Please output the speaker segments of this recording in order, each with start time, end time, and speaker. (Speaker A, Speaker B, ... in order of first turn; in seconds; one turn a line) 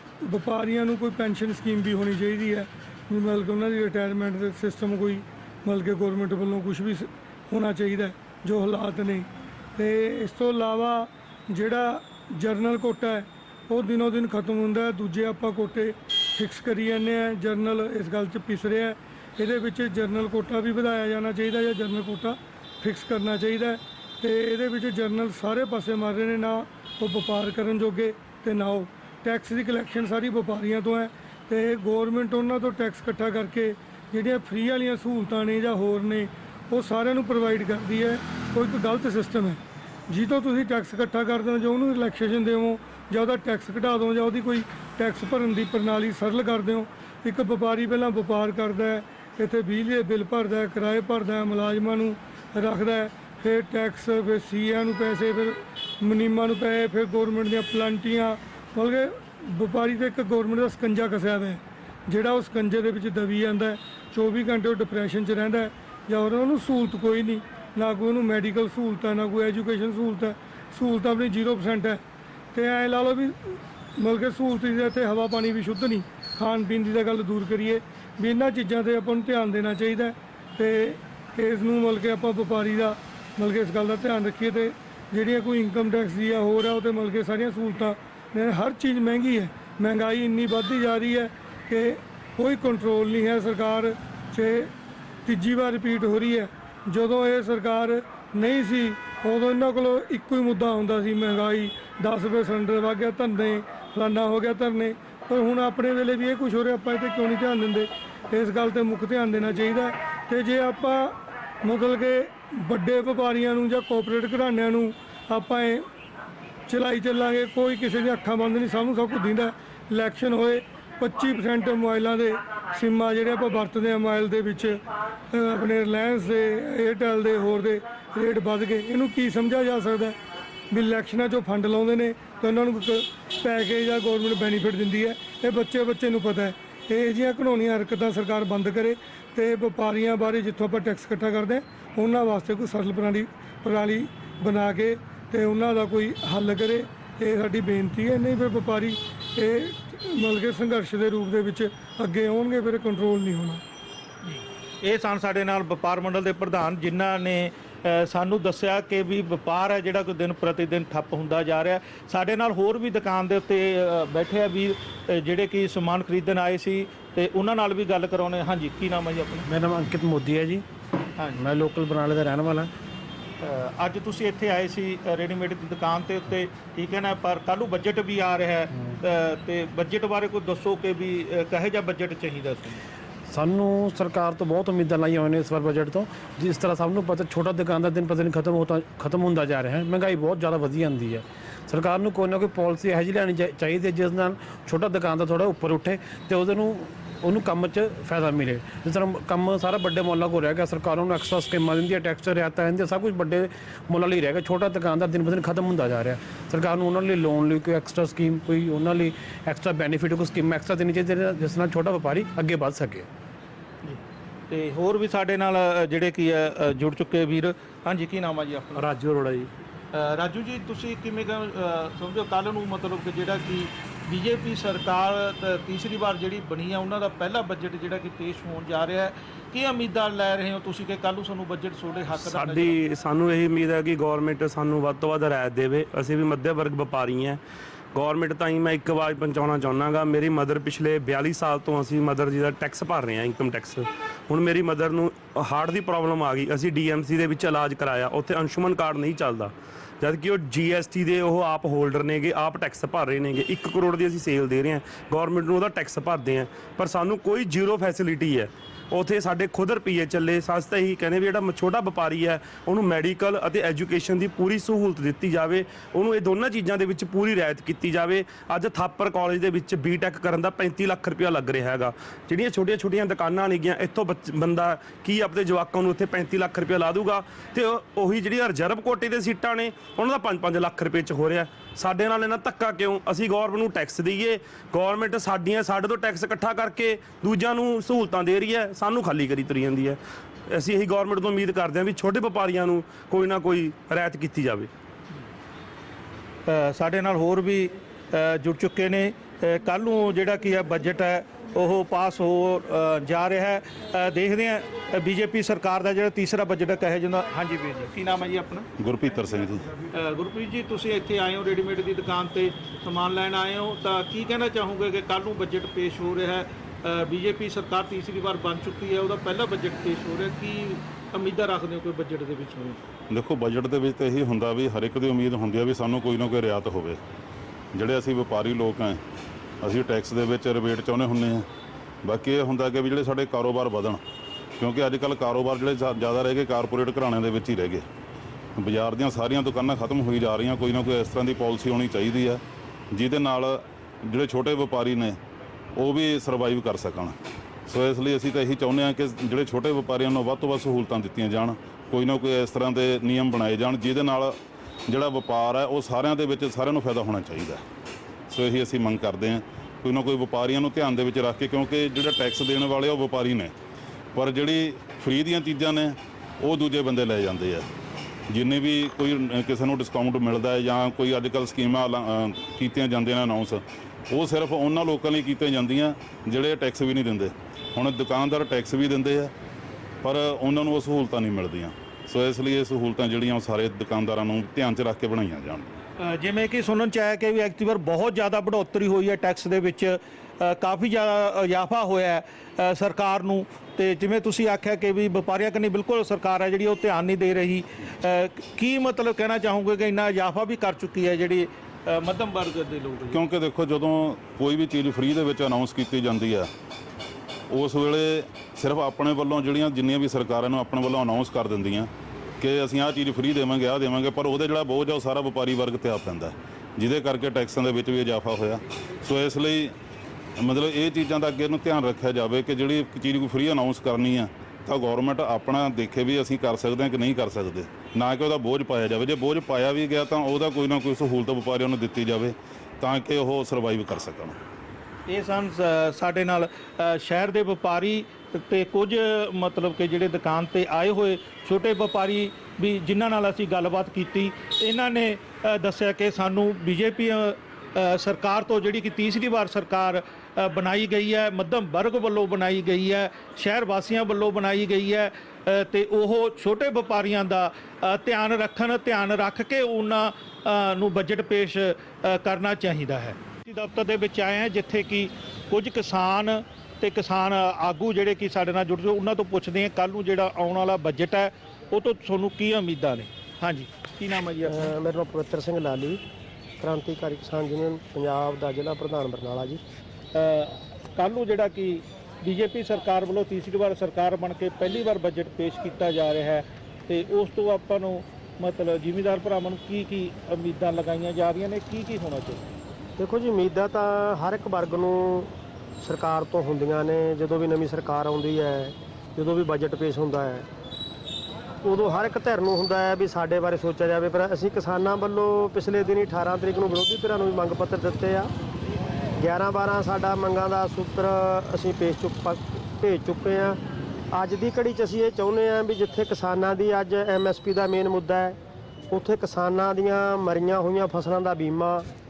Speaker A: 0.2-72.0
Speaker A: 72.5-94.7
Speaker A: 95.3-115.9
Speaker A: 116.7-130.2
Speaker A: 130.7-153.6
Speaker B: 154.2-169.5
Speaker C: 169.5-170.7
Speaker C: 171.4-172.7
Speaker B: 173.4-182.8
Speaker C: 183.3-213.1
Speaker B: 213.8-218.9
Speaker D: 218.8-219.5
Speaker B: 219.9-232.8
Speaker D: 232.2-237.4
Speaker D: 237.9-290.0
Speaker D: 290.5-294.7
Speaker B: 296.5-308.7
Speaker E: 308.8-309.6
Speaker B: 309.9-322.8
Speaker E: 323.1-327.0
Speaker E: 327.7-329.0
Speaker E: 329.6-331.5
Speaker E: 332.0-334.0
Speaker E: 334.6-337.9
Speaker E: 338.6-345.2
Speaker E: 345.8-347.2
Speaker E: 347.7-357.6
Speaker E: 358.3-363.5
Speaker E: 364.1-367.7
Speaker E: 368.3-379.3
Speaker E: 380.0-385.8
Speaker B: 386.0-403.2
Speaker E: 403.1-406.5
Speaker E: 407.5-419.8
Speaker E: 420.4-434.4
Speaker B: 435.1-474.7
Speaker F: 474.4-476.0
Speaker F: 476.6-479.6
Speaker B: 480.1-492.4
Speaker F: 493.0-500.5
Speaker F: 501.6-508.3
Speaker F: 509.2-513.6
Speaker F: 514.1-518.4
Speaker F: 518.9-521.9